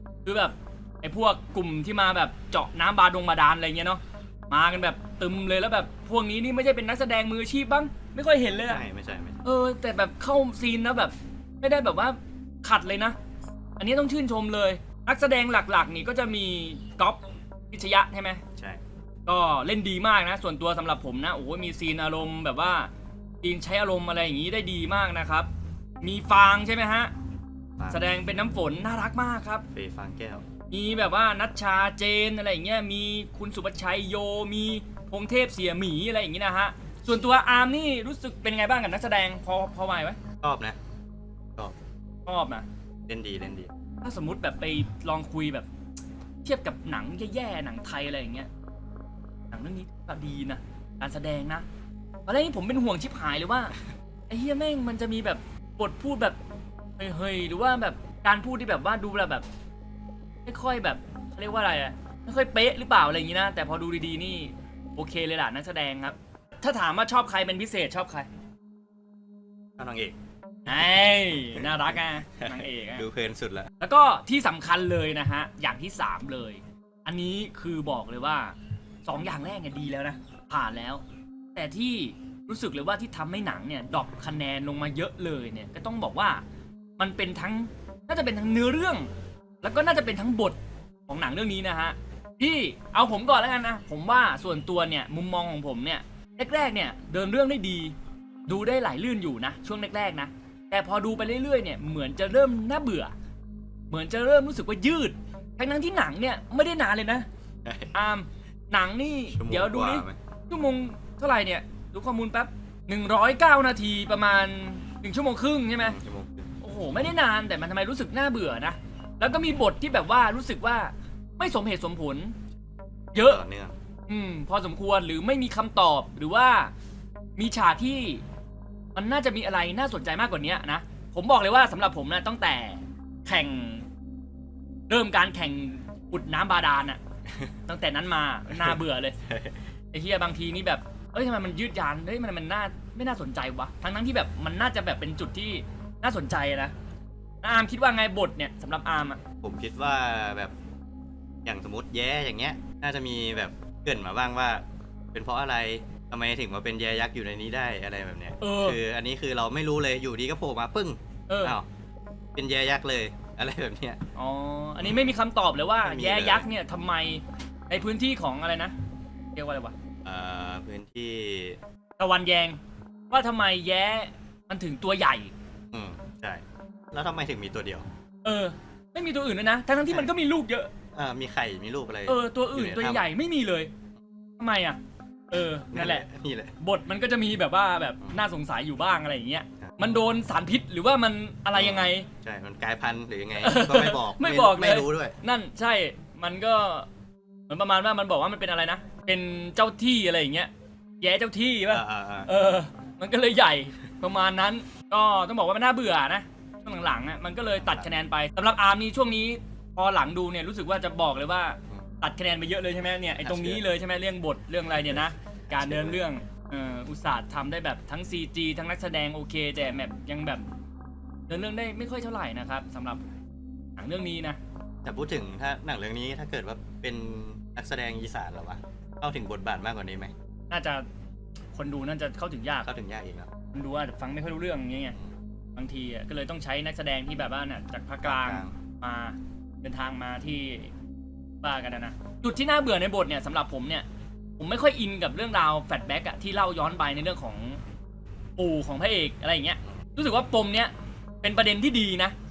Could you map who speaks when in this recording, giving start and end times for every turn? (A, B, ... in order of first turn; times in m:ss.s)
0:00.2-0:08.8 A
0:08.6-0:09.4 B
0:09.4-0:13.2 A
0:13.8-0:17.2 A
0:17.7-0:18.4 A
0:19.3-0:22.9 A
0:23.4-0:25.5 A
0:26.0-0:27.1 A
0:27.8-0:28.0 B
0:27.9-0:29.6 A
0:29.7-0:30.4 B
0:30.7-0:40.2 A
0:40.4-0:40.8 B
0:42.3-0:42.7 A
0:43.1-0:43.7 B
0:44.0-0:45.7 A
0:46.4-0:48.5 A
0:49.5-0:51.6 A
0:52.3-0:53.8 A
0:54.3-0:56.4 A
0:57.0-0:59.4 A
1:00.5-1:08.3 A
1:09.8-1:10.2 B
1:10.7-1:13.0 A
1:11.5-1:13.7 B
1:13.8-1:21.0 A
1:21.6-1:26.4 A
1:27.0-1:29.1 A
1:29.6-1:30.6 A
1:31.1-1:38.0 A
1:38.5-1:43.1 A
1:43.9-1:47.3 A
1:47.6-1:47.9 B
1:47.9-1:56.0 A
1:49.3-1:50.2 B
1:55.8-1:56.5 B
1:56.6-2:02.4 A
2:03.1-2:03.4 A
2:03.1-2:03.7 B
2:04.1-2:06.7 A
2:07.4-2:08.2 A
2:09.0-2:13.8 A
2:14.9-2:17.0 A
2:17.7-2:19.2 A
2:19.3-2:19.5 B
2:19.9-2:26.7 A
2:27.4-2:29.2 A
2:29.4-2:30.5 B
2:31.4-2:34.6 B
2:35.1-2:41.6 B
2:38.4-2:38.8 A
2:41.3-2:41.6 A
2:42.4-2:44.0 B
2:44.2-2:48.7 A
2:44.8-2:45.2 B
2:45.8-2:46.5 B
2:49.4-2:49.7 A
2:50.0-2:51.6 B
2:52.0-2:52.6 A
2:53.1-2:55.3 A
2:55.7-2:57.9 B
2:58.2-3:00.7 A
3:00.9-3:03.0 B
3:02.1-3:03.7 A
3:04.4-3:04.8 A
3:05.3-3:06.0 A
3:05.7-3:06.5 B
3:06.6-3:12.1 A
3:09.6-3:09.9 B
3:11.6-3:15.2 B
3:13.4-3:16.9 A
3:17.5-3:20.5 A
3:21.0-3:40.5 A
3:21.7-3:22.3 B
3:27.6-3:27.9 B
3:33.2-3:33.6 B
3:34.8-3:36.0 B
3:41.3-3:43.1 A
3:43.8-3:44.4 A
3:44.8-3:50.1 B
3:50.5-3:50.8 A
3:51.6-3:52.7 A
3:52.6-3:53.3 B
3:53.5-3:55.0 A
3:55.6-4:00.7 A
3:58.0-3:58.5 B
4:01.4-4:03.9 A
4:04.4-4:07.6 A
4:08.4-4:10.7 A
4:11.2-4:12.1 A